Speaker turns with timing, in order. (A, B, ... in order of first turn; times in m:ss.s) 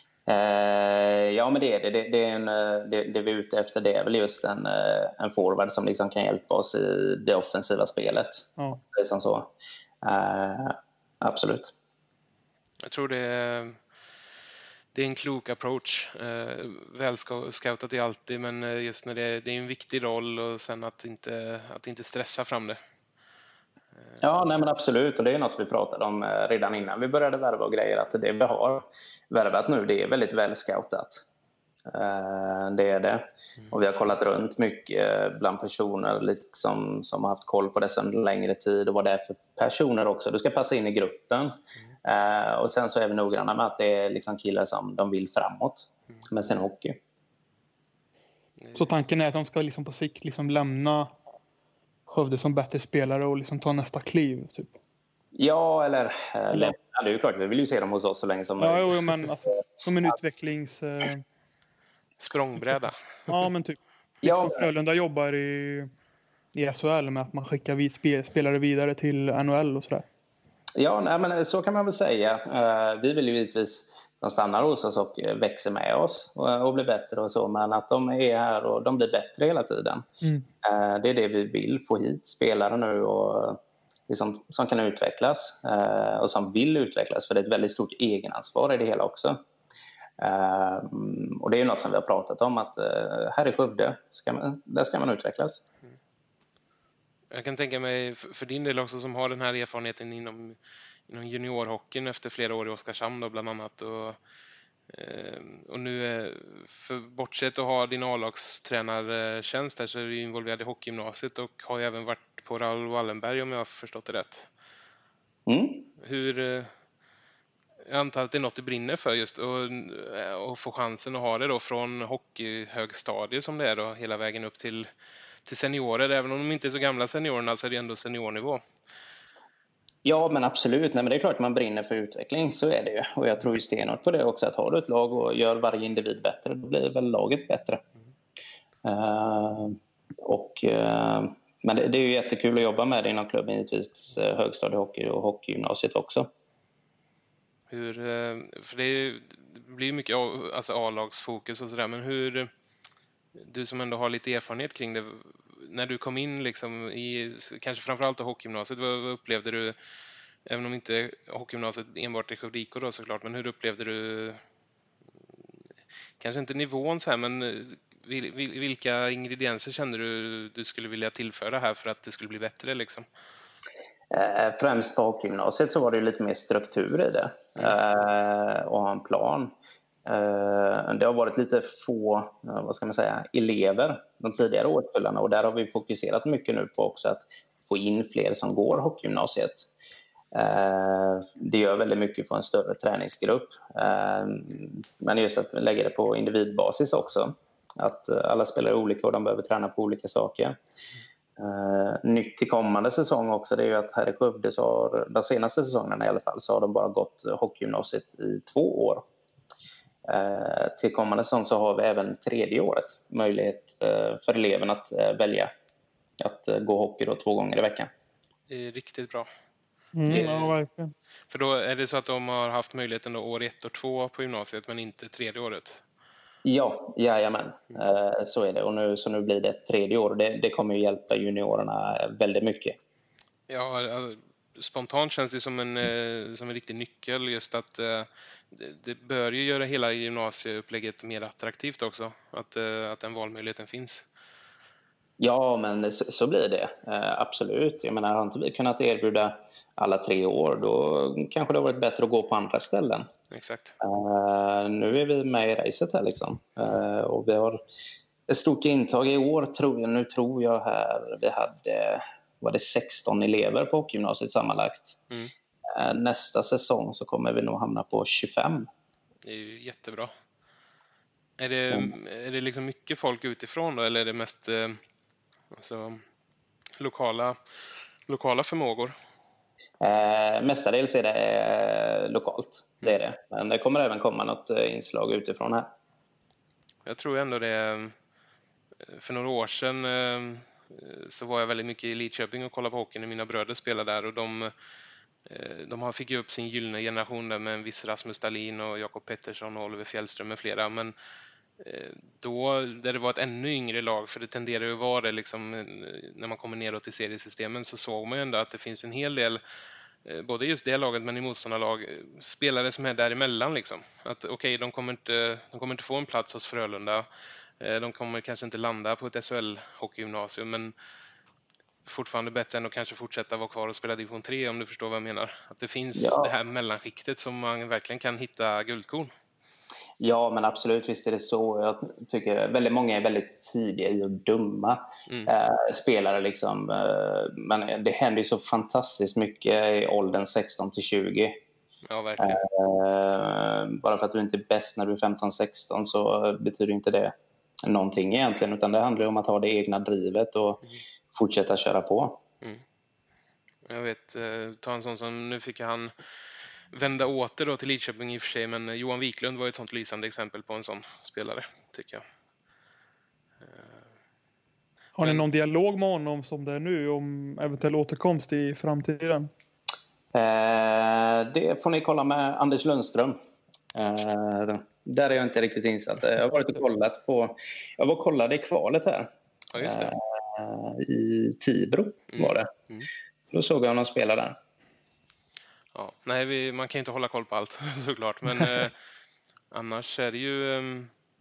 0:00.3-0:09.5 A
0:10.0-0:11.7 A
0:12.8-0:13.8 B
0:14.9-0:22.8 B
0:24.2-0:31.2 A
0:31.9-0:47.0 A
0:48.6-0:48.9 B
0:48.8-0:51.1 C
0:52.1-0:54.7 C
0:55.4-0:59.1 A
0:58.6-1:01.2 C
1:02.2-1:03.0 B
1:03.3-1:05.9 C
1:04.2-1:04.7 A
1:06.6-1:10.0 C
1:10.8-1:20.0 A
1:20.6-1:29.4 A
1:30.2-1:35.6 A
1:37.3-1:44.2 B
1:44.9-1:54.5 B
1:55.5-1:55.9 A
1:56.0-1:56.7 B
1:57.9-2:04.9 B
2:05.5-2:08.6 B
2:10.0-2:17.8 A
2:18.8-2:26.3 A
2:27.7-2:32.5 B
2:33.4-2:39.8 B
2:40.5-2:44.4 B
2:46.2-2:53.0 B
2:54.1-2:59.5 A
3:00.0-3:09.7 A
3:10.3-3:20.6 A
3:21.4-3:29.0 A
3:30.1-3:35.5 A
3:36.2-3:37.9 A
3:38.5-3:39.3 B
3:40.0-3:40.9 C
3:40.1-3:40.5 B
3:41.3-3:45.8 B
3:46.4-3:52.8 A
3:53.5-4:04.1 B
4:05.2-4:13.1 A
4:13.3-4:13.8 B
4:13.8-4:17.6 A
4:18.3-4:25.0 A
4:25.7-4:28.7 A
4:29.2-4:30.1 B
4:31.4-4:34.8 B
4:35.5-4:36.0 B
4:36.8-4:37.4 B
4:38.1-4:38.9 B
4:39.8-4:45.7 A
4:46.9-4:48.0 B
4:48.9-4:54.5 B
4:55.3-5:01.0 B
5:01.6-5:09.4 B
5:10.0-5:17.1 B
5:17.6-5:20.7 B
5:21.9-5:29.1 B
5:26.0-5:26.3 A
5:30.0-5:41.4 A
5:41.9-5:42.4 B
5:42.2-5:50.6 A
5:51.1-5:52.2 A
5:53.6-5:55.9 B
5:56.7-6:02.0 B
6:03.4-6:03.8 B
6:05.0-6:09.3 C
6:10.1-6:13.2 A
6:13.7-6:22.5 A
6:19.5-6:19.9 B
6:22.1-6:22.9 B
6:23.3-6:24.4 A
6:25.7-6:28.8 B
6:29.5-6:30.9 B